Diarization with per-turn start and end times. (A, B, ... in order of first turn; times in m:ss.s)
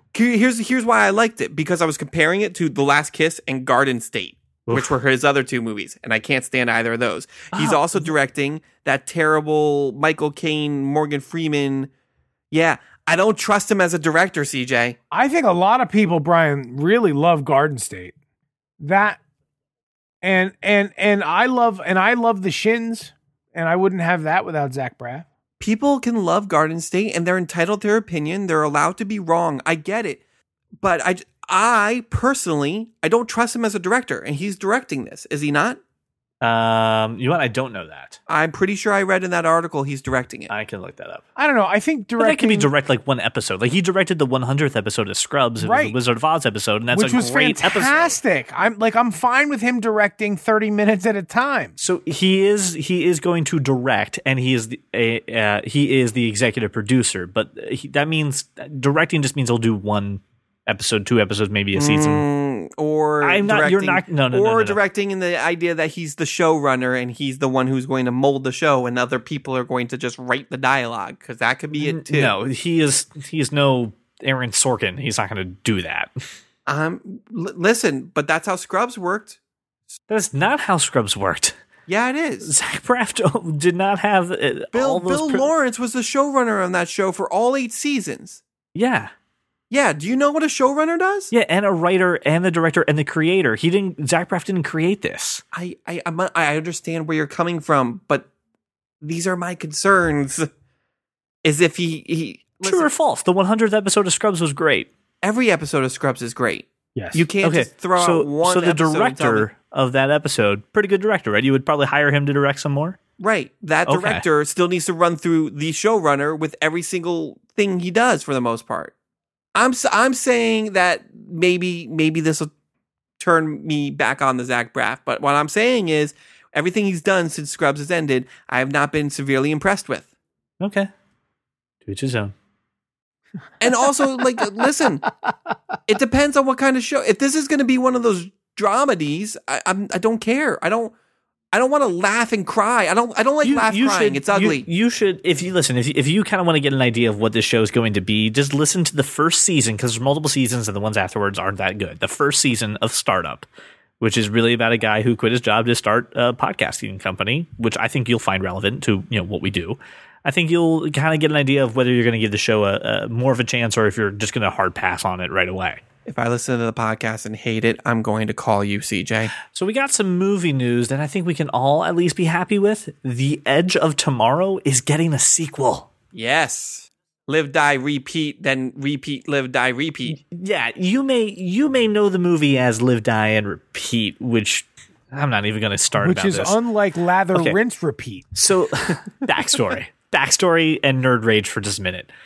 0:00.1-0:11.9 A
0:04.7-0:04.9 B
0:07.5-0:08.1 B
0:12.5-0:15.0 A
0:15.1-0:18.1 C
0:18.8-0:19.2 C
0:20.2-0:25.2 C
0:25.6-0:30.2 A
0:30.8-0:35.8 A
0:36.4-0:38.2 B
0:38.3-0:40.5 A
0:40.5-0:41.2 B
0:41.4-0:42.7 C
0:42.2-0:48.2 B
0:45.6-0:46.0 C
0:46.9-0:51.7 C
0:51.8-1:02.2 B
1:01.8-1:12.3 A
1:03.2-1:04.8 B
1:11.8-1:16.1 B
1:16.7-1:19.4 A
1:20.1-1:21.6 B
1:21.9-1:22.5 A
1:22.4-1:25.5 B
1:24.7-1:28.4 A
1:28.7-1:29.1 B
1:29.7-1:31.3 A
1:31.3-1:35.4 B
1:35.5-1:38.3 A
1:39.0-1:40.5 A
1:41.4-1:42.9 A
1:42.6-1:44.9 B
1:45.2-1:49.5 A
1:47.0-1:47.2 C
1:47.4-1:53.0 B
1:53.2-1:58.9 A
1:53.8-1:54.2 B
1:59.5-2:02.5 A
2:03.2-2:10.1 A
2:10.6-2:10.9 B
2:11.8-2:12.3 B
2:13.6-2:15.1 A
2:15.9-2:20.9 A
2:21.5-2:24.6 A
2:23.4-2:33.5 B
2:34.0-2:45.8 B
2:46.0-2:49.3 A
2:49.5-2:55.9 B
2:56.1-3:00.2 A
3:00.1-3:06.6 B
3:06.0-3:08.3 C
3:07.3-3:07.6 B
3:08.3-3:12.1 B